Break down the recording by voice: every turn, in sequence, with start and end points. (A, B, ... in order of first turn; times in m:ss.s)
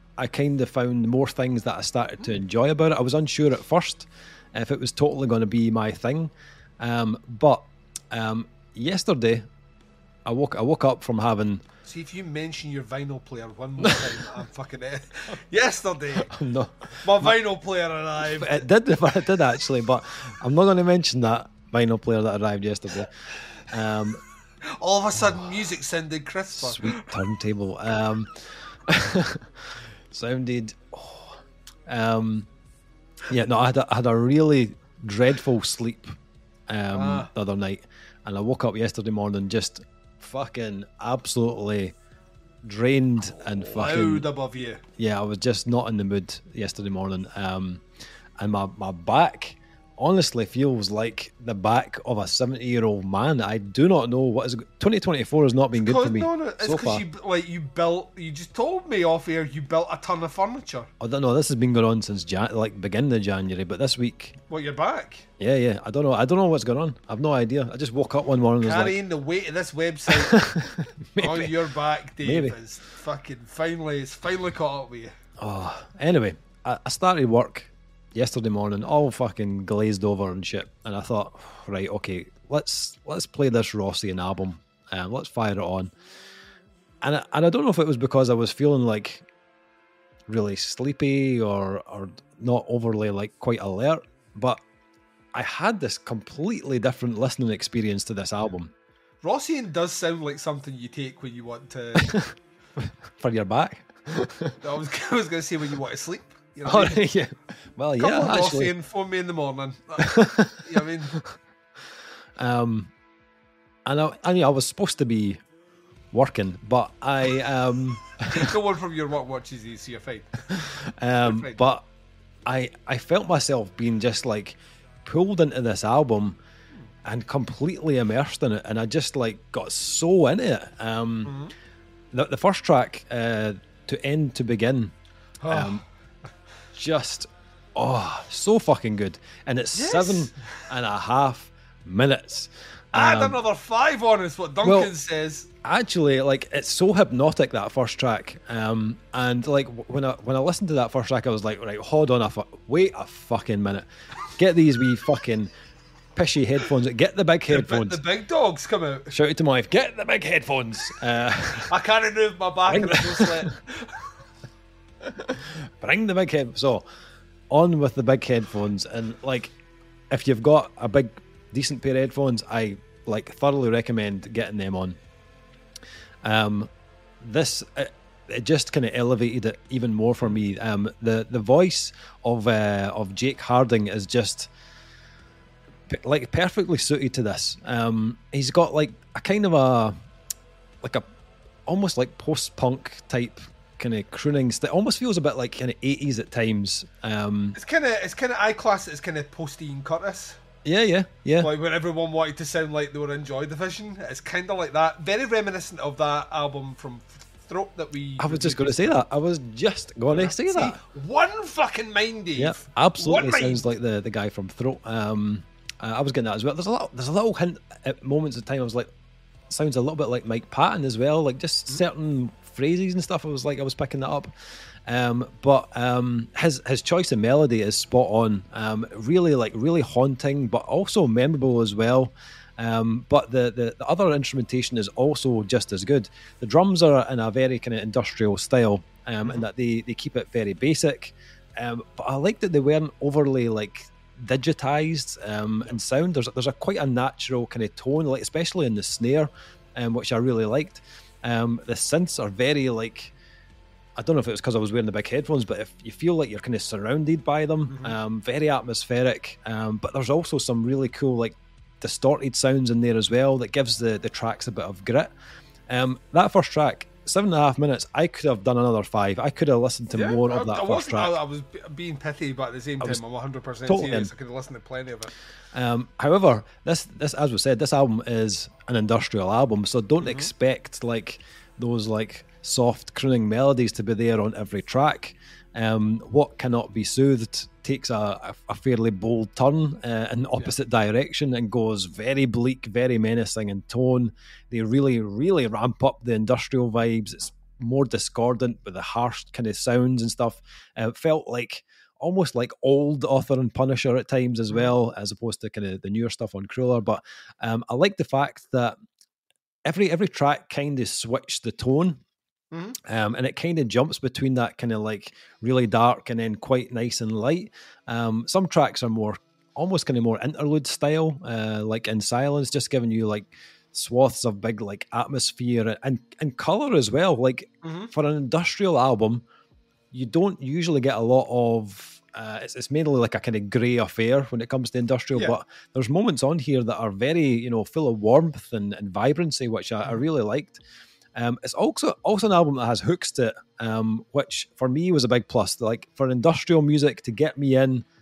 0:00.2-0:09.5 A
0:10.2-0:11.6 A
0:11.9-0:16.3 B
0:13.8-0:14.2 A
0:16.2-0:17.4 A
0:17.0-0:18.6 B
0:18.3-0:24.2 A
0:24.7-0:27.2 B
0:25.2-0:25.5 A
0:26.6-0:32.5 A
0:33.3-0:36.2 A
0:36.7-0:42.0 A
0:36.9-0:37.3 B
0:42.6-0:44.3 A
0:43.5-0:44.8 B
0:45.0-0:47.8 A
0:48.4-0:57.0 A
0:55.8-1:00.9 B
1:01.0-1:04.4 A
1:04.5-1:05.3 B
1:05.4-1:09.0 A
1:08.6-1:10.4 B
1:10.1-1:11.6 A
1:11.2-1:15.2 B
1:12.2-1:12.6 A
1:15.4-1:25.9 A
1:27.0-1:29.3 A
1:30.3-1:34.6 A
1:35.3-1:38.7 A
1:39.2-1:42.2 B
1:42.0-1:44.6 A
1:44.6-1:47.0 B
1:46.6-1:48.7 A
1:48.0-1:51.2 B
1:50.0-1:50.6 A
1:52.4-1:52.9 A
1:53.8-1:55.4 A
1:56.1-1:58.5 A
1:58.3-2:01.6 B
2:00.5-2:01.9 A
2:02.5-2:06.4 A
2:07.0-2:11.4 A
2:11.2-2:11.5 B
2:12.1-2:14.9 A
2:15.4-2:15.8 B
2:15.5-2:15.8 A
2:16.7-2:23.4 A
2:19.8-2:20.6 B
2:22.9-2:25.5 B
2:24.6-2:24.9 A
2:25.6-2:35.5 A
2:36.2-2:38.0 A
2:37.5-2:39.1 B
2:39.1-2:41.7 A
2:41.6-2:44.1 B
2:42.7-2:43.5 A
2:45.2-2:46.8 A
2:47.5-2:49.6 A
2:50.1-2:55.0 A
2:56.2-2:56.7 A
2:57.2-3:04.5 A
3:05.9-3:10.0 A
3:11.7-3:17.6 A
3:17.6-3:20.4 B
3:20.6-3:21.5 A
3:21.4-3:28.8 B
3:28.2-3:30.8 A
3:30.1-3:33.6 B
3:32.4-3:38.9 A
3:39.5-3:44.3 A
3:44.8-4:13.1 A
4:14.0-4:25.1 A
4:17.7-4:18.0 B
4:25.7-4:31.2 A
4:29.9-4:35.1 B
4:33.7-4:34.1 A
4:35.5-5:08.8 A
4:40.0-4:40.3 B
5:09.6-5:12.0 A
5:12.5-5:12.8 B
5:12.8-5:29.2 A
5:27.6-5:27.9 B
5:29.9-5:40.6 A
5:41.2-5:47.8 A